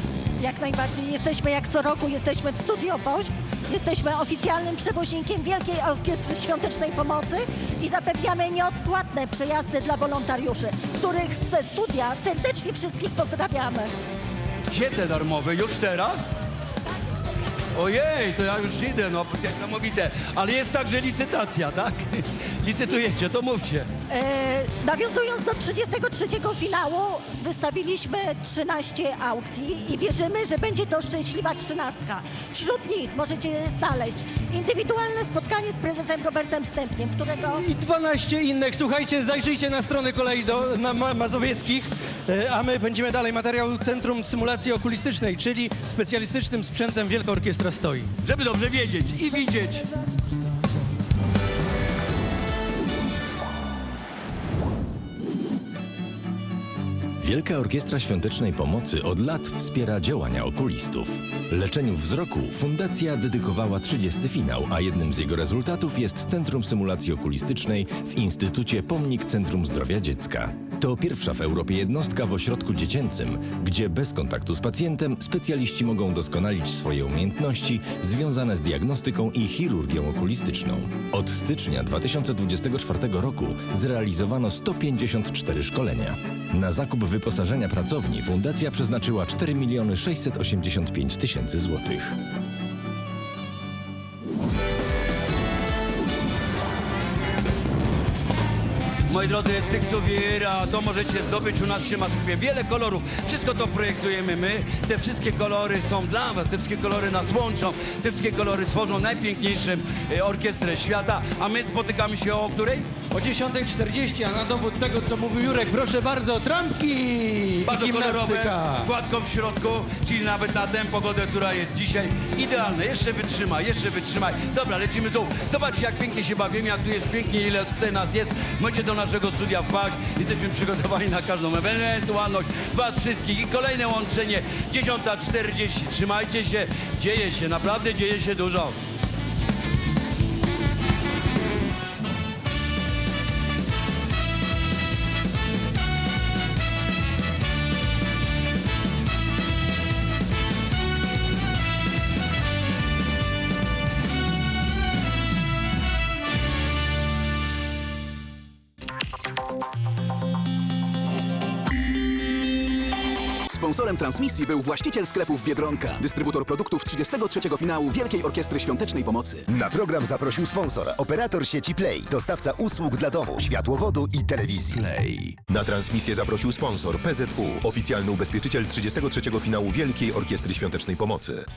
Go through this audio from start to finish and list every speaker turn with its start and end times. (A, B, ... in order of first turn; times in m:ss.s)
0:00.4-0:13.9 A
0:14.7-0:16.4 B
0:17.7-0:23.9 B
0:24.1-0:37.6 A
0:37.5-0:48.1 C
0:48.2-0:49.9 B
0:57.2-1:32.2 D
1:39.1-1:52.9 B
1:53.1-1:58.9 C
1:57.6-2:18.8 B
2:43.5-2:49.5 E
2:49.5-2:54.9 F
2:54.8-2:55.4 B
2:55.5-3:01.4 G